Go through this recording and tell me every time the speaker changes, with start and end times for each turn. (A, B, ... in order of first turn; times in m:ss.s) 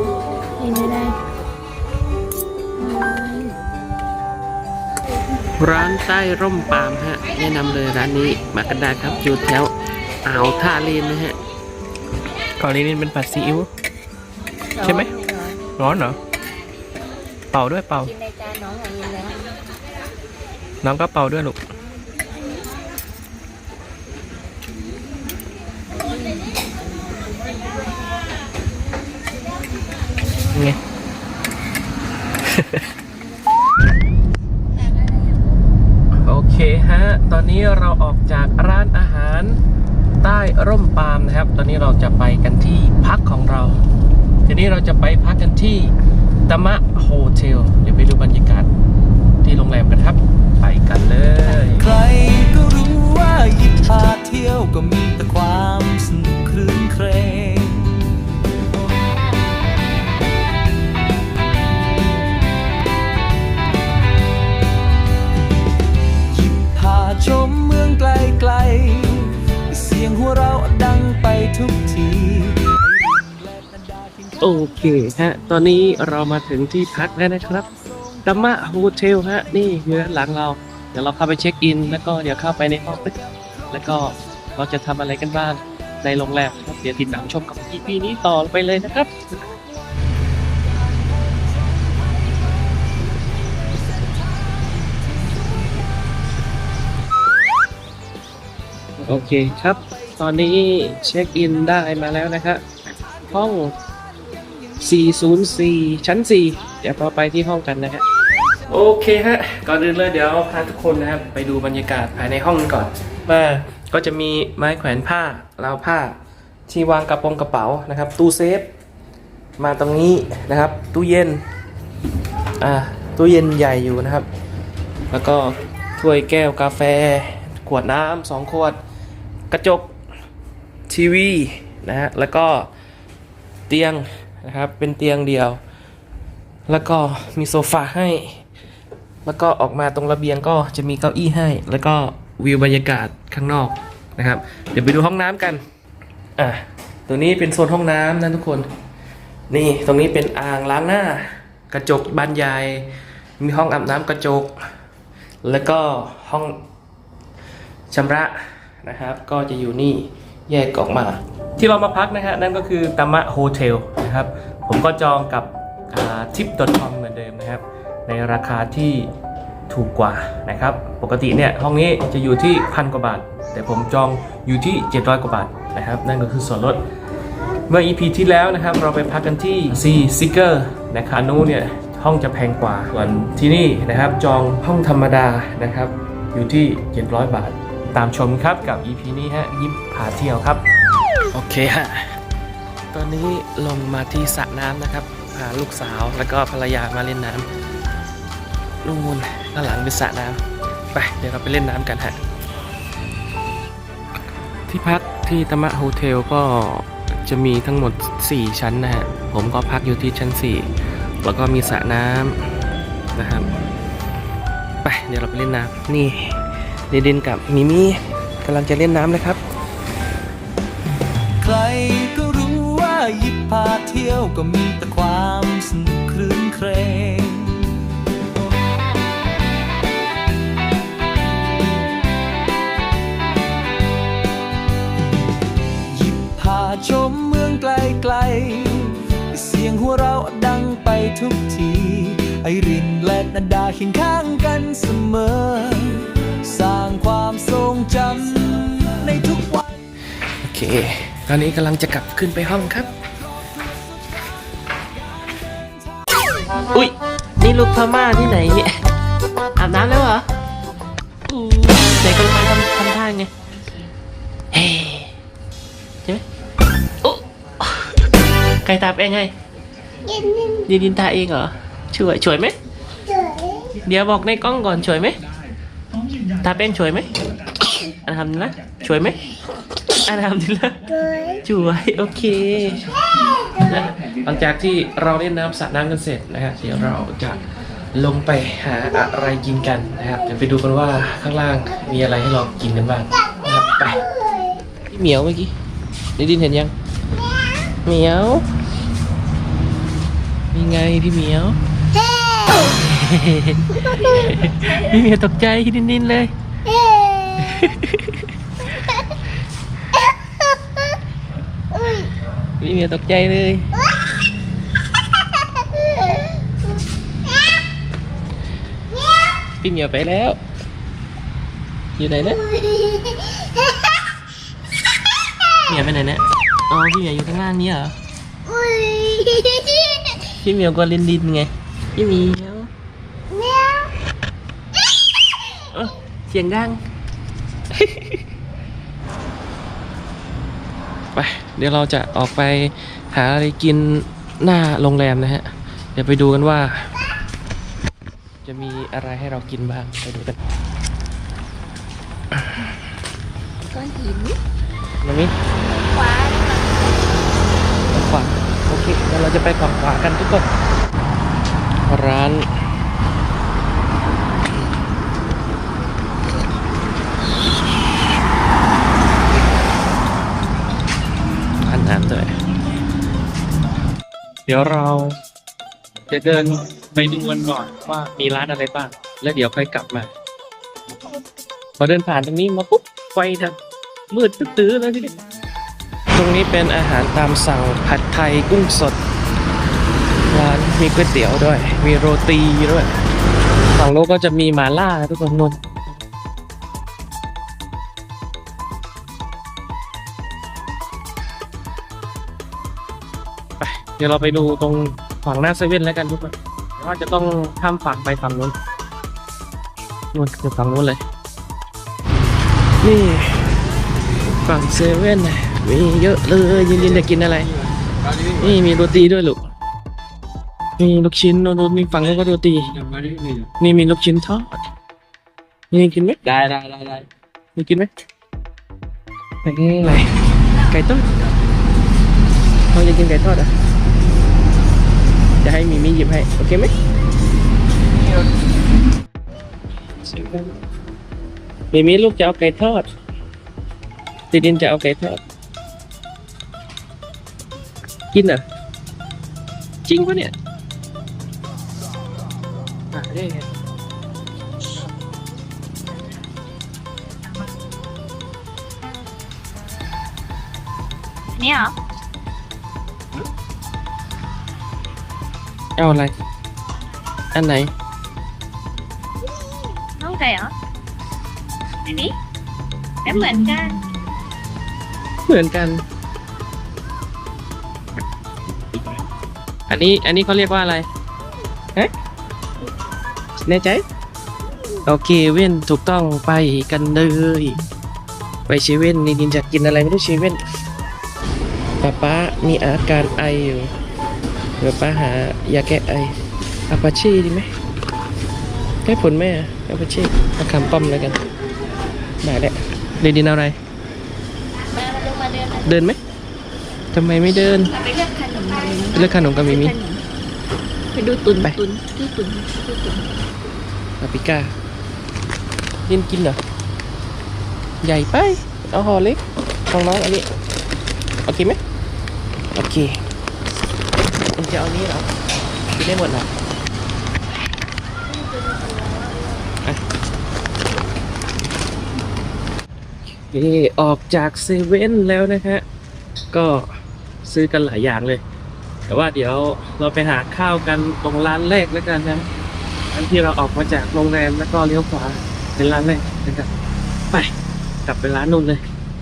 0:00.6-0:01.2 A
0:02.8-0:03.6 A
0:05.6-0:09.7 B
0:10.2-0:11.4 B
0:12.6-0:13.7 B
0:14.8-0:15.6 A
0:14.8-0:15.1 B
0:15.8-0:16.2 B
0:17.5-0:18.1 B
0:18.0-0:19.5 A
0:20.8-0:21.6 B
0:30.5-0:30.8 B
0:32.4-0:32.9 B
0:36.2-0:39.6 B
0:40.2-0:43.8 B
0:44.5-0:46.0 B
0:46.5-0:48.7 B
0:49.4-0:51.9 B
0:51.8-0:58.0 C
1:06.3-1:14.4 C
1:14.4-1:17.7 B
1:18.2-1:23.2 B
1:23.7-1:29.2 B
1:39.0-1:42.6 B
1:43.3-1:43.8 B
1:44.8-1:48.0 B
1:48.7-1:58.7 B
1:59.6-2:01.4 B
2:02.6-2:04.3 B
2:05.1-2:08.8 B
2:09.5-2:09.9 B
2:10.9-2:12.7 B
2:13.7-2:15.6 B
2:16.7-2:18.4 B
2:19.2-2:25.6 B
2:26.4-2:28.7 B
2:29.5-2:34.6 B
2:35.4-2:36.6 B
2:37.9-2:49.1 B
2:49.7-2:56.8 B
2:57.7-3:10.6 B
3:11.3-3:12.2 B
3:12.9-3:17.5 B
3:18.8-3:20.4 B
3:20.9-3:22.2 B
3:24.7-3:30.7 B
3:31.2-3:32.4 B
3:33.2-3:33.5 B
3:34.8-3:39.4 B
3:41.4-3:47.7 C
3:55.9-4:09.6 C
4:10.4-4:12.9 B
4:16.7-4:18.7 B
4:19.6-4:20.2 B
4:21.3-4:23.3 B
4:24.5-4:25.2 B
4:27.0-4:28.0 B
4:28.6-4:29.3 B
4:30.7-4:32.6 B
4:33.8-4:35.2 B
4:36.4-4:37.1 B
4:37.8-4:39.2 B
4:40.0-4:42.9 B
4:43.6-4:54.1 B
4:54.9-4:55.5 B
4:56.2-4:56.7 B
4:57.8-4:58.5 B
5:00.5-5:01.6 B
5:02.6-5:06.3 B
5:03.8-5:04.8 A
5:07.4-5:08.3 B
5:12.6-5:13.7 B
5:19.6-5:20.4 B
5:22.0-5:22.4 B
5:25.7-5:28.0 B
5:29.0-5:29.4 A
5:30.2-5:32.7 B
5:35.7-5:36.8 B
5:37.7-5:38.2 B
5:41.2-5:46.9 B
5:48.4-5:50.4 B
5:53.7-5:54.4 A
5:55.0-5:55.3 B
5:55.7-5:57.0 A
5:57.9-6:00.5 B
6:01.9-6:02.5 B
6:11.6-6:12.3 B
6:14.5-6:15.2 B
6:16.1-6:20.1 B
6:21.8-6:23.6 B
6:24.1-6:25.1 B
6:26.1-6:29.0 B
6:30.3-6:32.9 B
6:33.7-6:35.6 B
6:43.6-6:48.6 B
6:50.1-6:51.0 B
6:52.8-6:53.5 B
6:54.4-6:57.5 B
6:58.3-6:59.5 B
7:00.8-7:04.6 B
7:05.7-7:07.0 B
7:07.6-7:07.9 B
7:09.4-7:10.1 B
7:10.7-7:11.2 B
7:12.7-7:13.5 B
7:15.4-7:16.7 B
7:20.0-7:20.5 B
7:21.7-7:22.9 B
7:24.3-7:25.2 B
7:28.1-7:28.4 B
7:29.9-7:30.3 B
7:32.9-7:33.5 B
7:41.4-7:41.7 A
7:45.8-7:46.1 B
7:47.3-7:47.7 B
7:50.0-7:50.5 A
7:51.9-7:52.1 A
7:53.0-7:53.8 A
7:55.3-7:55.8 B
7:59.7-8:00.9 B
8:03.5-8:03.8 B
8:04.9-8:07.6 B
8:08.5-8:10.4 B
8:11.8-8:13.7 B
8:14.6-8:16.2 B
8:16.7-8:17.5 B
8:18.8-8:21.2 B
8:22.2-8:23.6 B
8:24.7-8:25.7 A
8:25.6-8:26.0 B
8:26.9-8:27.7 B
8:27.7-8:30.0 A
8:28.9-8:29.8 B
8:30.9-8:33.1 A
8:34.0-8:34.5 B
8:35.9-8:36.4 B
8:37.8-8:40.3 B
8:41.3-8:41.6 B
8:42.5-8:43.0 B
8:44.4-8:45.1 B
8:45.8-8:46.3 B
8:48.1-8:49.5 A
8:53.2-8:55.6 B
8:56.3-8:56.7 B
8:57.2-8:58.2 B
8:58.9-9:02.3 B
9:02.9-9:06.5 B
9:07.9-9:08.6 B